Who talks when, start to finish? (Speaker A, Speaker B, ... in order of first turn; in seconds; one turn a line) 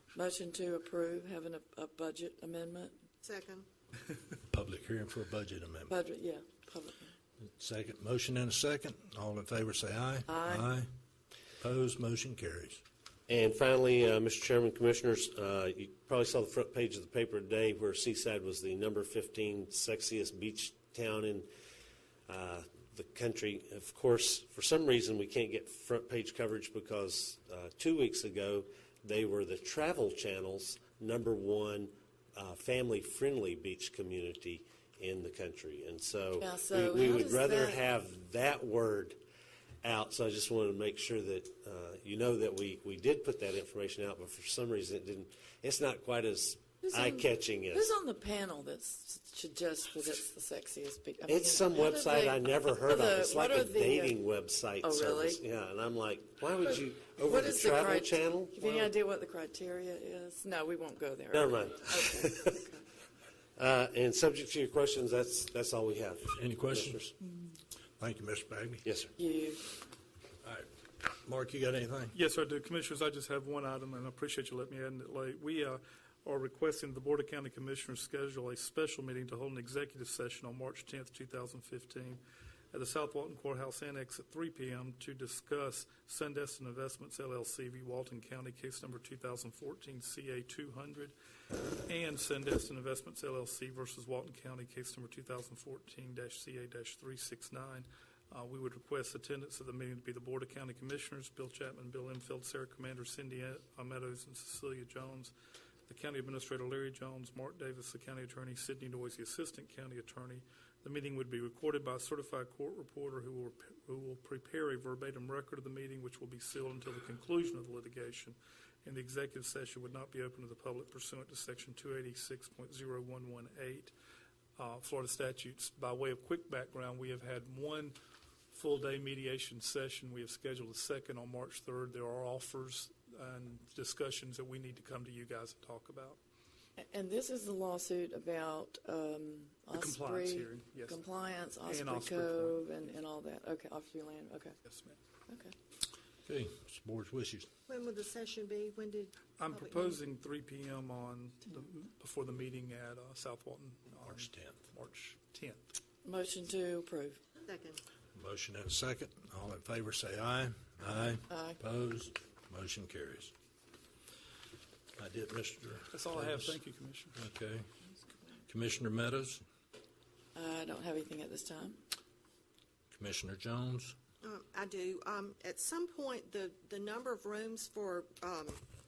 Speaker A: 0.1-3.0
Speaker B: 3.2-3.7
Speaker C: 4.5-5.9
Speaker A: 5.9-7.1
Speaker C: 7.4-10.9
Speaker A: 10.3-10.7
Speaker C: 11.6-12.8
Speaker D: 13.3-21.5
Speaker D: 22.3-39.2
Speaker A: 36.4-37.8
Speaker D: 39.8-47.9
Speaker A: 46.8-54.2
Speaker D: 51.3-58.9
Speaker A: 54.8-55.4
Speaker A: 57.2-62.7
Speaker D: 61.3-62.7
Speaker D: 63.6-67.1
Speaker C: 66.3-67.1
Speaker C: 68.0-68.8
Speaker D: 68.8-69.1
Speaker A: 69.2-69.8
Speaker C: 71.2-72.1
Speaker E: 72.1-91.1
Speaker E: 91.9-105.3
Speaker E: 105.9-123.9
Speaker E: 124.6-128.0
Speaker E: 128.5-136.2
Speaker A: 136.8-144.6
Speaker E: 139.7-141.0
Speaker E: 141.6-142.7
Speaker E: 144.7-145.0
Speaker A: 145.3-145.6
Speaker C: 146.3-147.5
Speaker B: 147.7-150.0
Speaker E: 149.4-155.7
Speaker C: 154.1-154.6
Speaker A: 156.0-157.2
Speaker B: 157.4-157.8
Speaker C: 158.2-163.3
Speaker A: 161.3-161.6
Speaker C: 165.0-166.6
Speaker E: 165.9-167.2
Speaker C: 167.2-167.7
Speaker C: 168.5-169.4
Speaker A: 170.3-171.8
Speaker C: 172.9-173.9
Speaker B: 174.2-178.6